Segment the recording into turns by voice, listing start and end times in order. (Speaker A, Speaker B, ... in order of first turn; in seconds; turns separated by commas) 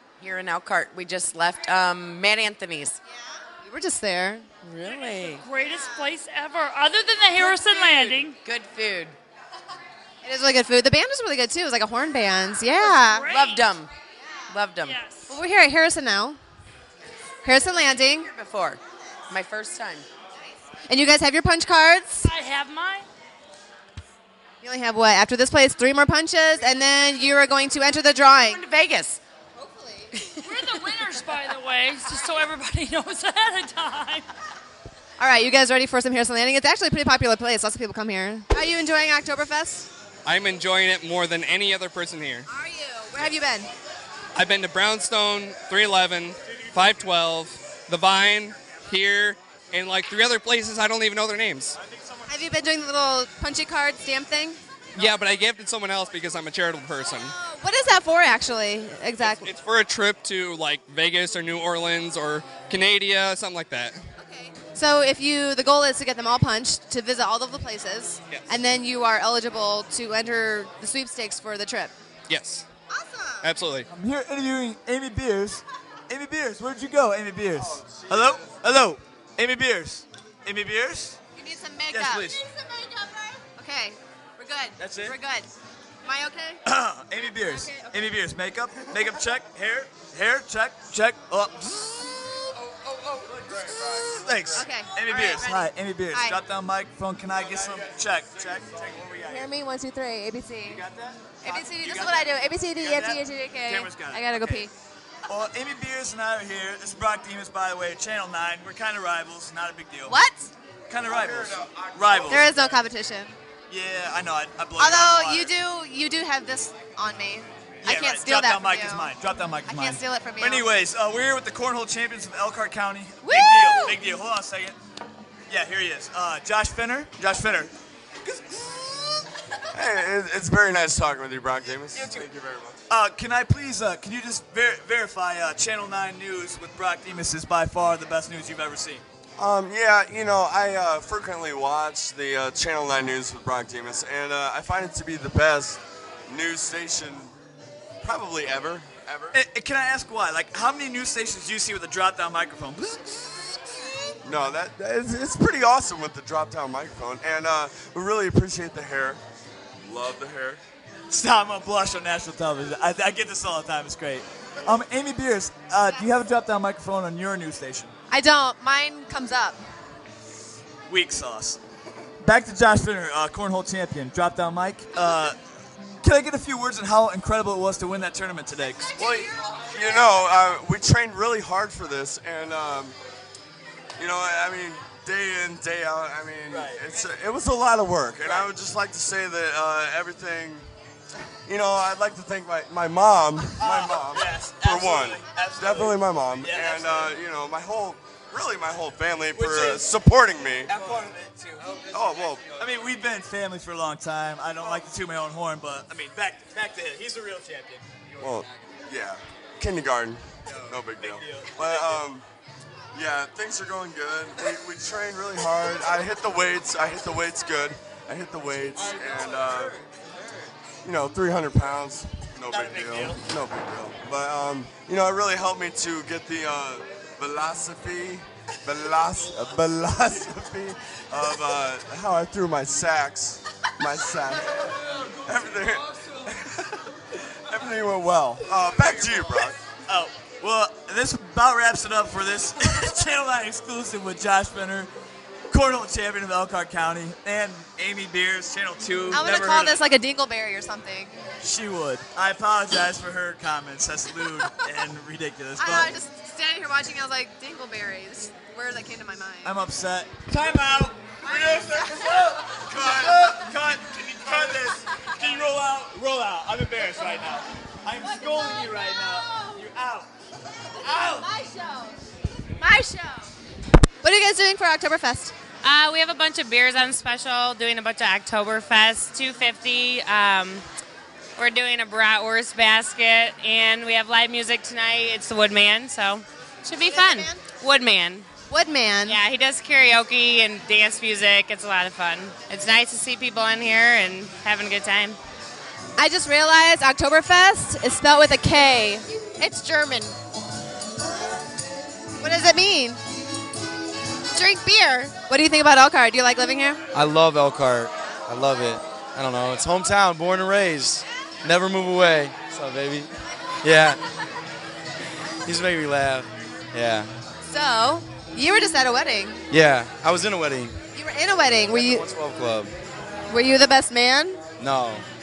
Speaker A: 0.2-3.0, Speaker B: 3.6-4.5, Speaker A: 4.6-5.4, Speaker C: 4.8-8.4, Speaker B: 5.7-6.1, Speaker A: 7.5-9.2, Speaker B: 10.2-13.3, Speaker C: 12.8-13.7, Speaker A: 13.3-13.9, Speaker A: 14.5-15.0, Speaker C: 14.8-15.4, Speaker B: 15.2-16.4, Speaker B: 17.4-18.3, Speaker A: 17.9-20.1, Speaker B: 20.9-22.3, Speaker C: 22.2-23.1, Speaker B: 24.6-28.6, Speaker A: 28.4-29.2, Speaker B: 29.7-30.0, Speaker A: 30.1-30.4, Speaker C: 30.4-34.3, Speaker B: 35.2-39.9, Speaker D: 40.2-42.5, Speaker B: 42.5-43.7, Speaker D: 44.3-51.8, Speaker E: 51.8-52.4, Speaker B: 52.3-54.6, Speaker D: 55.0-57.3, Speaker B: 57.0-59.5, Speaker D: 59.2-64.0, Speaker B: 64.2-71.9, Speaker D: 72.3-72.7, Speaker B: 72.9-73.5, Speaker D: 73.4-73.9, Speaker E: 73.9-81.2, Speaker B: 81.3-85.5, Speaker E: 81.9-82.4, Speaker E: 84.8-85.2, Speaker B: 86.0-86.6, Speaker E: 86.6-92.4, Speaker E: 93.1-99.5, Speaker B: 94.5-96.4, Speaker B: 99.3-100.8, Speaker E: 100.6-104.7, Speaker B: 101.4-104.7, Speaker E: 105.3-110.2, Speaker B: 110.1-110.5, Speaker E: 110.9-112.5, Speaker F: 111.1-112.4, Speaker B: 112.3-113.4, Speaker E: 113.7-115.5, Speaker B: 114.8-119.1, Speaker E: 117.8-124.8, Speaker B: 119.7-120.7, Speaker B: 123.2-124.0, Speaker E: 125.5-127.7, Speaker E: 128.2-128.7, Speaker F: 129.7-132.8, Speaker E: 131.9-132.2, Speaker E: 132.9-139.0, Speaker F: 139.4-147.3, Speaker F: 148.0-149.4, Speaker E: 149.3-153.9, Speaker F: 154.2-159.2, Speaker F: 159.8-160.6, Speaker E: 161.1-167.9, Speaker B: 168.1-169.6, Speaker E: 170.9-171.6, Speaker E: 172.2-175.4, Speaker E: 176.0-179.0, Speaker F: 178.9-182.9, Speaker F: 184.0-190.7, Speaker E: 186.5-186.8, Speaker E: 188.2-188.5, Speaker F: 191.3-200.7, Speaker E: 193.6-197.1, Speaker E: 199.3-199.9, Speaker E: 200.7-201.9, Speaker F: 201.9-202.4, Speaker E: 202.6-207.9, Speaker F: 208.2-212.2, Speaker E: 210.5-212.0, Speaker F: 212.9-219.8, Speaker F: 220.8-239.6, Speaker E: 222.5-223.2, Speaker E: 239.8-244.9, Speaker E: 245.5-249.8, Speaker B: 249.1-251.1, Speaker E: 251.4-255.9, Speaker B: 255.6-259.5, Speaker E: 259.4-270.1, Speaker F: 261.2-261.9, Speaker B: 261.3-262.0, Speaker F: 262.6-263.2, Speaker E: 270.8-271.3, Speaker B: 271.3-271.9, Speaker B: 272.6-273.3, Speaker B: 274.0-275.3, Speaker G: 275.6-280.6, Speaker G: 281.4-288.3, Speaker B: 286.9-287.4, Speaker B: 288.5-289.2, Speaker G: 289.0-295.2, Speaker B: 296.0-299.1, Speaker G: 299.4-300.1, Speaker B: 302.2-303.0, Speaker G: 304.4-305.0, Speaker B: 304.5-306.8, Speaker H: 306.9-313.1, Speaker H: 313.6-314.0, Speaker H: 315.4-317.2, Speaker B: 317.4-319.4, Speaker H: 319.5-320.8, Speaker B: 320.9-322.1, Speaker H: 321.7-322.7, Speaker B: 323.3-324.4, Speaker H: 324.6-325.1